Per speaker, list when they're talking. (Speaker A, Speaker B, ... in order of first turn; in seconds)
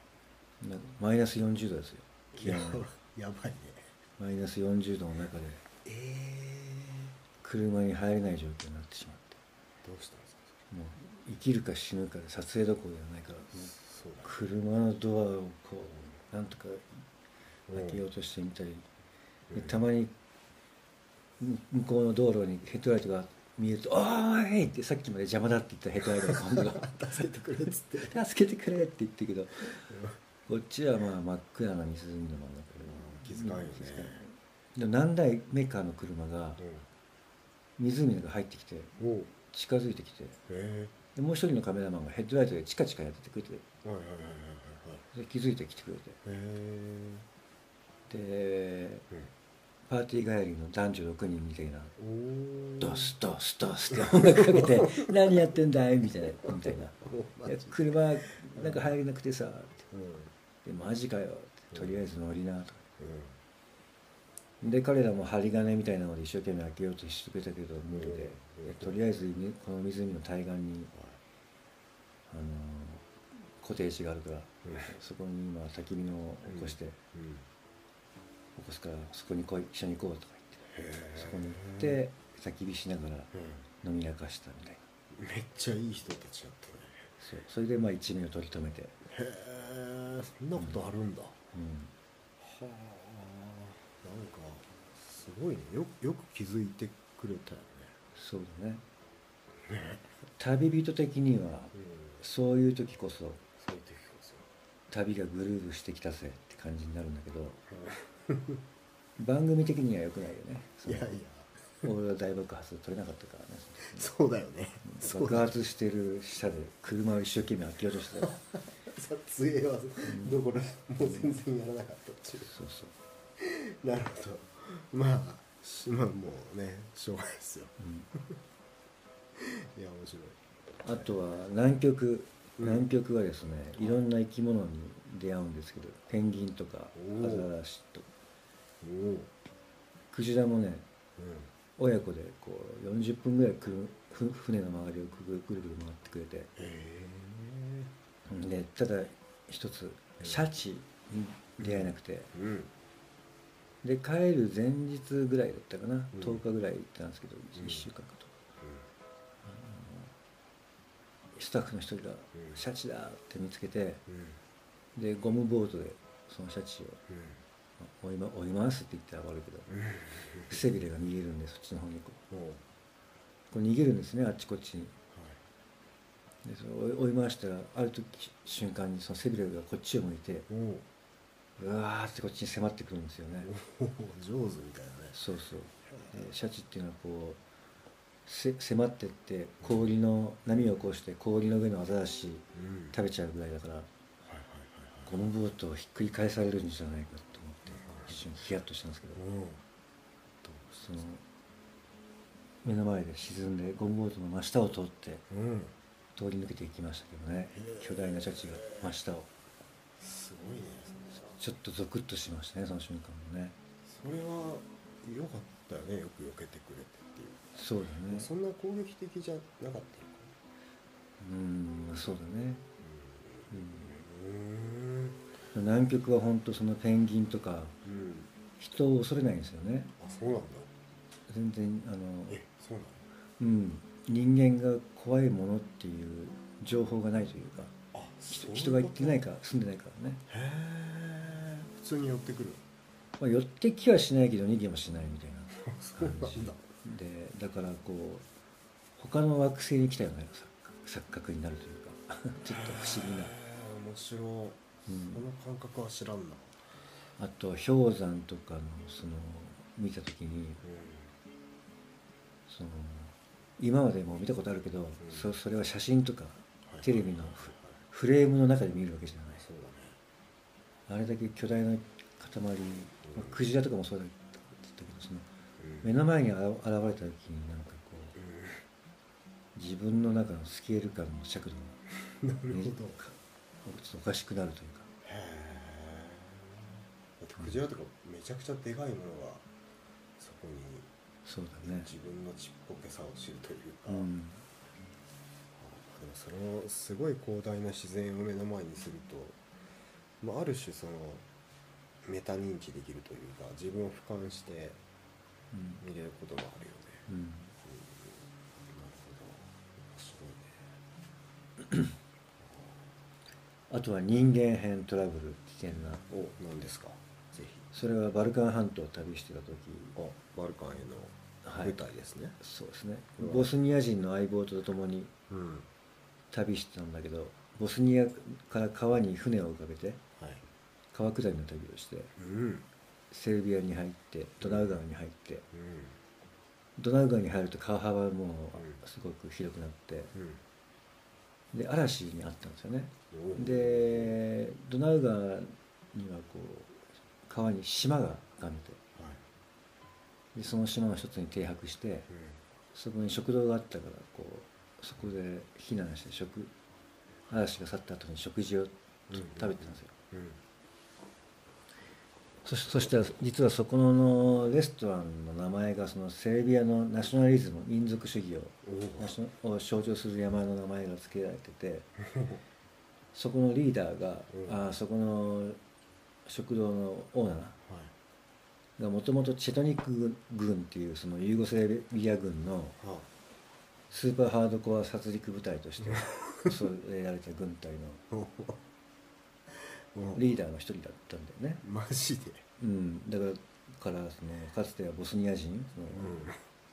Speaker A: 0.6-2.9, 4.2-5.6, 7.4-9.4, 10.7-17.0, 17.7-18.9, 19.5-20.1, 21.4-27.3, 27.9-29.9, 30.5-36.6, 37.8-40.4, 41.1-43.7, 45.1-46.2, 48.1-49.1, 49.9-52.0, 52.8-59.9, 60.6-62.9, 64.6-70.9, 72.3-77.0, 78.5-84.9, 87.2-89.0, 91.5-91.9, 98.2-98.8, 100.4-103.5, 104.9-107.6, 109.2-111.1, 111.8-114.1, 114.8-118.4, 120.0-120.4, 121.1-121.4, 122.5-122.9, 127.8-128.1, 130.8-138.1, 140.1-140.9, 141.8-146.5, 148.3-152.3, 153.8-158.3, 159.4-160.1, 161.3-164.0, 165.0-167.0, 167.8-169.8, 170.5-172.2, 173.5-174.9, 176.4-180.5, 181.6-183.5, 185.1-187.4, 188.3-193.9, 195.1-199.2, 200.8-201.2, 202.6-205.2, 206.2-209.3, 211.4-213.6, 217.6-218.3, 221.2-222.7, 223.5-223.9, 225.5-227.8, 228.6-229.9, 231.3-232.4, 233.4-237.8, 238.3-240.2, 243.2-248.3, 249.0-253.3, 254.9-255.2, 257.2-260.6, 262.5-269.5, 270.9-275.3, 275.8-278.2, 279.6-281.8, 282.5-284.9, 291.2-291.9, 293.9-294.4, 305.5-305.8, 307.1-307.5, 313.7-316.0, 317.7-320.0, 321.4-321.8, 322.4-325.1, 326.3-330.0, 330.9-332.1, 333.1-335.5, 336.8-340.1, 341.5-348.8, 350.4-352.1, 352.7-356.5, 357.3-359.9, 362.4-371.9, 373.1-375.6, 376.3-377.6, 378.8-382.8, 383.9-388.0, 390.1-391.6, 392.6-396.3
Speaker B: 2.3-3.9, 5.8-7.2, 9.8-10.6, 13.5-14.4, 17.7-18.0, 19.5-19.8, 26.1-28.2, 29.9-30.2, 32.8-34.2, 36.6-36.9, 39.0-39.3, 40.5-41.0, 43.8-45.1, 46.2-47.3, 52.0-53.1, 54.0-55.1, 56.7-58.9, 59.9-60.3, 61.7-62.0, 63.0-63.4, 67.9-69.0, 70.9-71.2, 74.6-74.9, 76.5-77.5, 80.7-82.0, 83.3-83.7, 85.1-87.1, 89.1-91.4, 92.4-98.0, 99.7-100.0, 101.8-102.2, 103.6-104.5, 107.7-108.6, 110.8-111.9, 113.9-115.5, 118.2-122.5, 123.4-128.4, 129.3-130.4, 132.6-132.9, 136.9-137.5, 138.8-139.3, 141.2-141.5, 146.6-147.9, 150.2-150.4, 151.6-152.7, 156.1-156.4, 157.6-157.9, 158.6-158.9, 164.1-164.4, 167.1-167.4, 169.7-170.6, 172.3-172.6, 175.1-175.4, 180.5-180.9, 183.4-185.2, 185.9-186.2, 189.6-189.9, 192.6-193.0, 194.2-195.2, 197.9-198.2, 199.2-199.6, 200.4-201.0, 205.3-205.8, 207.5-208.9, 210.0-211.4, 213.8-217.6, 218.1-220.3, 222.8-225.2, 227.8-228.3, 230.0-230.7, 232.3-233.1, 237.9-239.3, 240.3-242.6, 245.6-246.6, 252.5-256.6, 260.6-261.1, 265.0-265.3, 266.7-267.8, 269.4-270.0, 273.1-273.4, 275.6-275.9, 278.2-278.6, 282.1-283.0, 285.0-289.5, 290.2-290.9, 291.6-294.1, 295.6-299.4, 300.2-301.3, 302.0-304.8, 305.8-307.1, 307.6-310.7, 312.4-312.9, 316.1-317.7, 319.9-322.4, 323.2-323.5, 325.3-325.7, 330.2-330.4, 332.2-332.7, 334.4-334.8, 335.5-336.0, 338.6-338.8, 340.1-340.4, 343.1-344.2, 348.9-349.2, 352.1-352.4, 359.1-360.4, 368.6-369.2, 372.0-372.4, 374.3-374.6, 377.6-377.9, 382.8-383.1, 385.9-386.5, 388.1-388.6, 389.9-390.4, 391.6-392.4, 395.9-396.4